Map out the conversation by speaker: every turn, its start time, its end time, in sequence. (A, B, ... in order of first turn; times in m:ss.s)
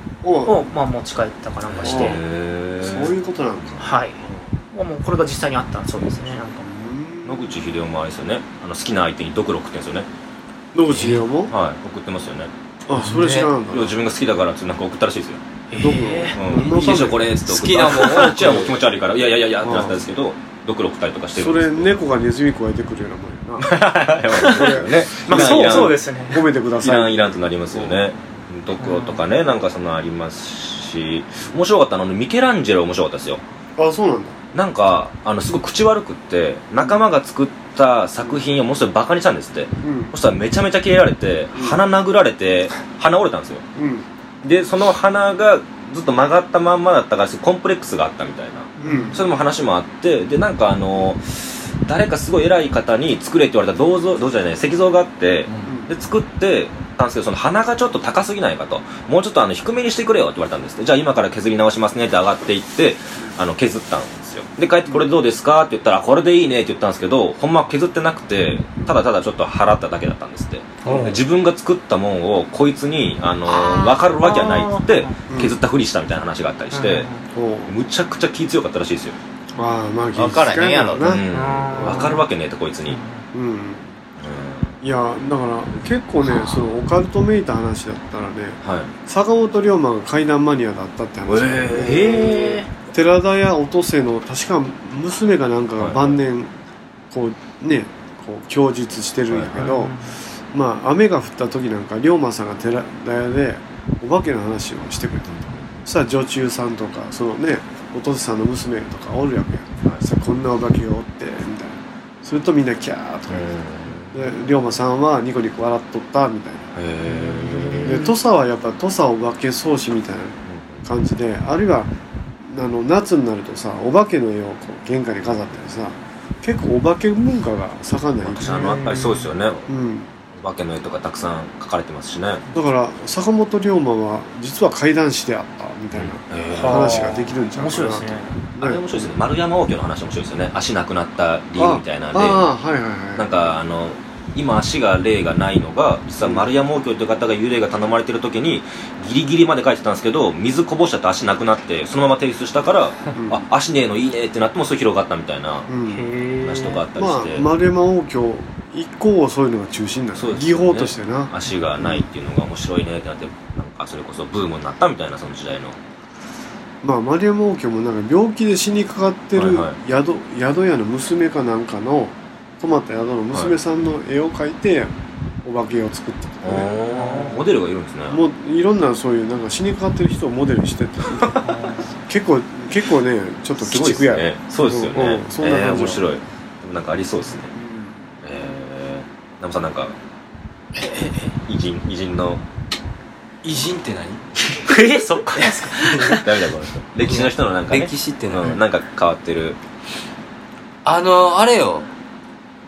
0:00.2-0:00.6 A
0:00.5-0:02.2 B
0:01.7-0:03.2 C
0:01.8-0:02.2 A
0:02.8-0:04.5 A
0:03.8-0:04.2 B
0:04.7-0:06.7 B
0:06.6-0:07.6 A
0:07.2-0:10.1 C
0:10.7-0:11.5 A
0:11.5-0:12.5 C
0:12.9-0:14.0 A
0:13.0-0:13.5 D
0:13.7-0:15.4 C
0:15.7-0:17.0 B
0:15.8-0:17.2 A
0:16.3-0:22.0 C
0:17.0-0:18.8 D
0:18.0-0:18.3 B
0:19.6-0:20.0 A
0:21.4-0:23.7 A
0:23.6-0:26.0 C
0:24.4-0:26.4 B
0:24.4-0:28.1 A
0:26.8-0:33.4 C
0:28.8-0:29.2 B
0:33.8-0:34.4 A
0:34.5-0:43.6 C
0:39.8-0:40.2 A
0:43.8-0:44.1 A
0:44.4-1:17.1 C
0:48.8-0:49.2 B
0:48.8-0:49.2 A
1:10.8-1:11.2 D
1:13.5-1:15.2 B
1:15.3-1:15.6 A
1:16.7-1:17.2 B
1:17.3-1:17.7 A
1:17.7-1:19.2 C
1:19.6-1:22.2 A
1:20.2-1:21.1 D
1:21.0-1:23.0 C
1:21.3-1:22.2 B
1:22.9-1:23.2 B
1:23.3-1:24.0 A
1:24.2-1:24.7 C
1:24.8-1:36.5 A
1:28.6-1:28.9 C
1:31.3-1:32.6 C
1:31.8-1:32.7 B
1:35.8-1:36.2 C
1:37.1-1:39.9 A
1:39.3-1:39.7 C
1:39.5-1:40.2 B
1:40.5-1:53.5 A
1:45.4-1:45.7 C
1:53.3-1:54.2 C
1:54.1-1:56.7 A
1:56.8-1:58.1 C
1:57.2-1:58.1 B
1:57.8-2:01.9 A
2:00.5-2:00.8 C
2:02.4-2:08.9 A
2:08.3-2:09.7 C
2:08.4-2:09.3 B
2:09.7-2:10.1 A
2:10.4-2:12.4 C
2:12.5-2:19.1 A
2:16.0-2:17.2 C
2:16.6-2:18.4 B
2:18.6-2:22.4 C
2:21.6-2:23.4 A
2:23.2-2:35.7 C
2:33.2-2:33.4 A
2:35.7-2:36.1 A
2:35.9-2:36.8 B
2:36.4-2:37.5 C
2:37.0-2:42.1 A
2:40.2-2:45.8 C
2:46.8-2:56.7 A
2:49.4-2:49.8 C
2:56.4-2:58.2 C
2:57.0-2:57.3 B
2:58.1-3:01.3 A
3:01.2-3:01.4 C
3:01.4-3:01.9 B
3:02.1-3:06.1 A
3:03.6-3:07.5 C
3:07.6-3:08.0 A
3:08.2-3:10.0 C
3:10.8-3:12.4 C
3:13.4-3:14.2 D
3:14.6-3:16.3 B
3:15.1-3:15.4 C
3:15.4-3:16.2 D
3:16.0-3:19.6 C
3:17.0-3:18.6 D
3:20.8-3:21.9 D